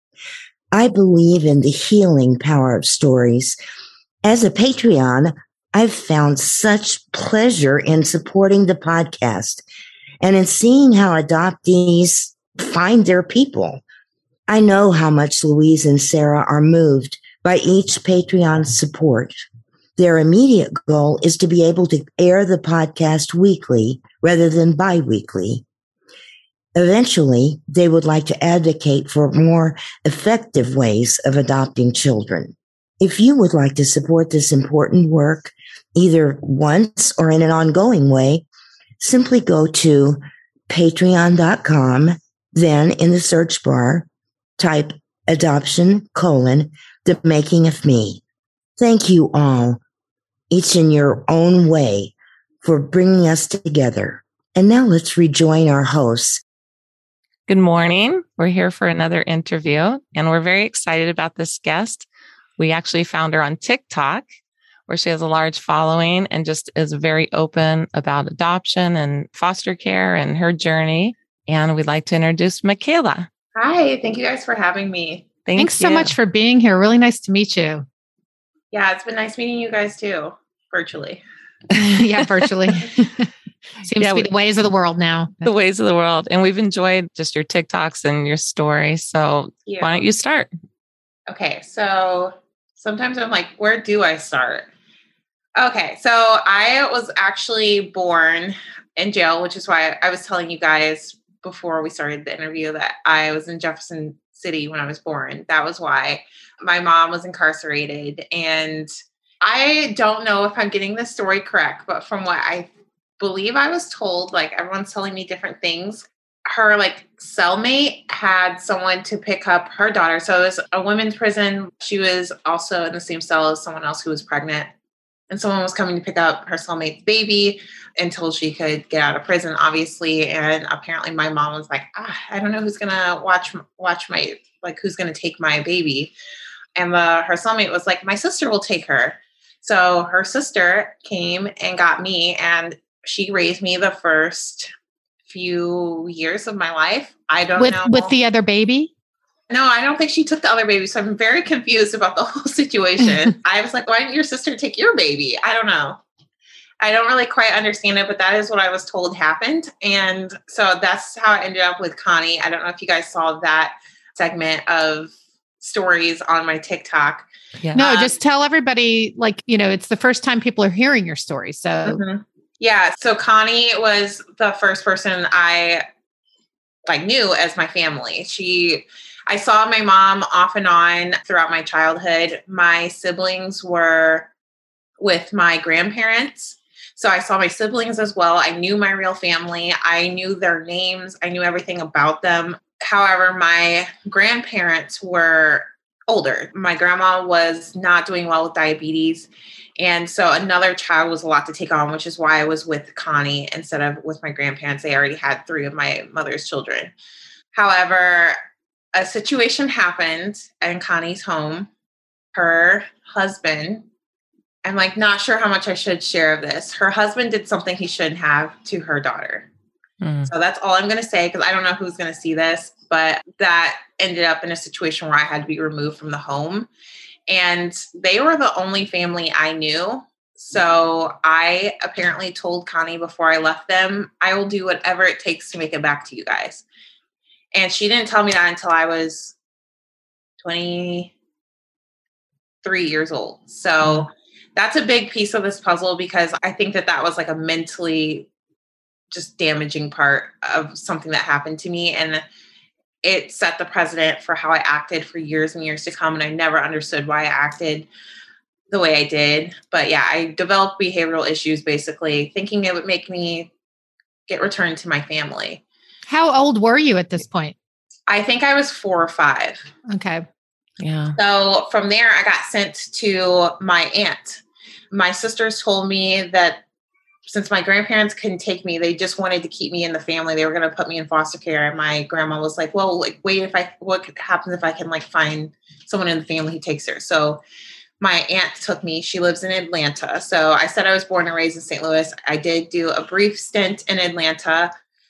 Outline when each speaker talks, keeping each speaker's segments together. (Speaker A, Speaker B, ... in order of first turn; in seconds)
Speaker A: 0.7-3.5, 4.2-9.6, 10.2-13.8, 14.5-19.4, 20.0-25.6, 26.8-38.5, 39.0-44.1, 44.6-48.2, 48.8-49.8, 50.5-56.4
Speaker B: 57.5-62.1, 62.6-64.3, 64.9-73.3, 75.5-76.1, 81.8-82.3, 84.0-84.3, 85.4-90.5, 167.6-168.1, 220.0-220.3, 243.8-244.1, 270.8-271.2
Speaker C: 73.5-75.3, 78.7-81.2, 89.7-90.0, 91.3-94.7, 95.6-108.9, 109.4-124.7, 125.3-136.1, 136.8-144.7, 145.3-148.1, 149.5-156.0, 156.8-167.3, 171.9-175.8, 176.9-184.3, 185.0-206.9, 207.5-208.4, 208.9-211.7, 212.3-213.9, 214.6-219.5, 220.3-226.7, 227.3-236.7, 237.5-239.4, 240.4-241.1, 242.6-248.3, 249.1-252.2, 253.0-257.9, 258.7-263.5, 264.3-265.6, 268.1-269.7, 271.2-276.6, 277.3-287.4, 288.0-294.7
Speaker D: 75.6-77.9, 81.7-83.3, 83.8-85.5, 147.6-148.9, 167.7-172.0, 266.1-267.6, 269.9-270.2